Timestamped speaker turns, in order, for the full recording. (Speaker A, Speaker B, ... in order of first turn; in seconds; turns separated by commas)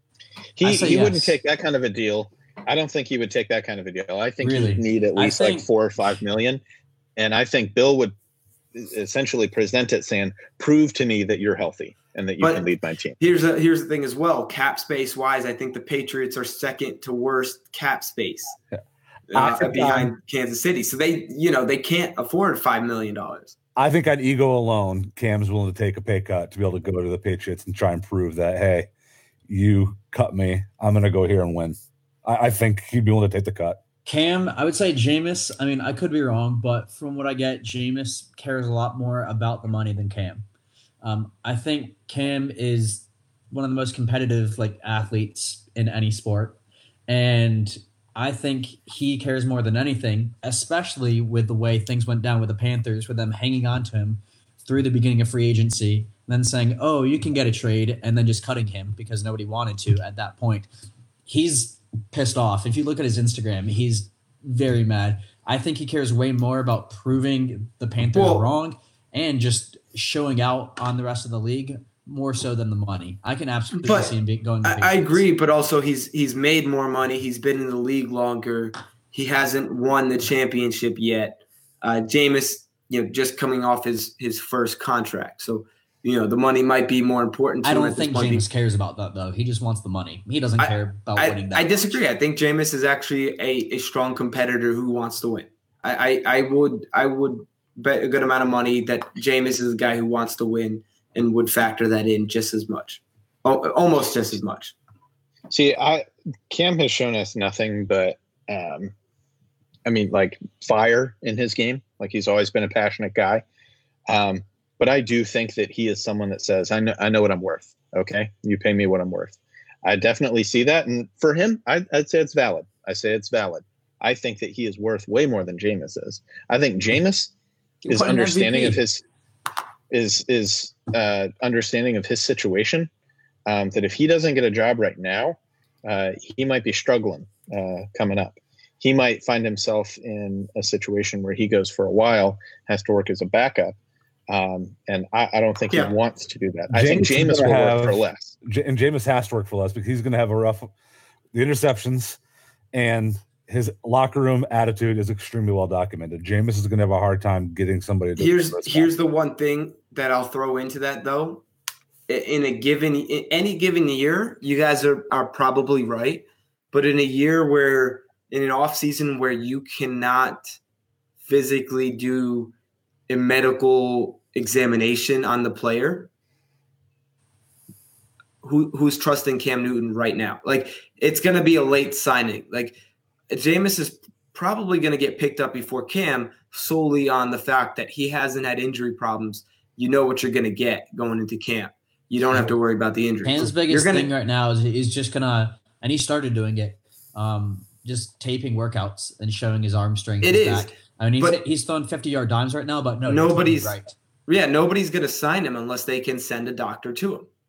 Speaker A: 0.6-6.6, Speaker B: 0.6-1.4, Speaker B: 4.4-5.7, Speaker A: 7.2-8.1, Speaker A: 8.7-13.2, Speaker C: 12.4-12.7, Speaker C: 13.2-18.6, Speaker C: 19.3-23.6, Speaker D: 19.3-20.1, Speaker D: 23.8-28.9, Speaker D: 29.5-33.8, Speaker B: 34.1-40.5, Speaker B: 41.0-60.7, Speaker B: 61.3-75.3, Speaker C: 68.1-68.5, Speaker C: 73.8-88.5, Speaker B: 87.6-91.9, Speaker C: 90.6-104.7, Speaker A: 105.5-108.9, Speaker A: 109.9-113.4, Speaker A: 114.1-127.3, Speaker A: 127.9-129.0, Speaker C: 127.9-128.7, Speaker B: 127.9-128.8, Speaker A: 129.9-132.9, Speaker A: 133.5-143.8, Speaker A: 144.3-148.3, Speaker D: 146.7-150.7, Speaker D: 151.3-152.2, Speaker D: 152.7-158.9, Speaker C: 158.2-161.4, Speaker C: 162.1-170.6, Speaker C: 171.2-172.5, Speaker C: 173.1-176.1, Speaker C: 178.4-182.8, Speaker C: 183.3-194.1, Speaker B: 193.2-203.9, Speaker C: 200.2-201.4, Speaker C: 203.1-207.3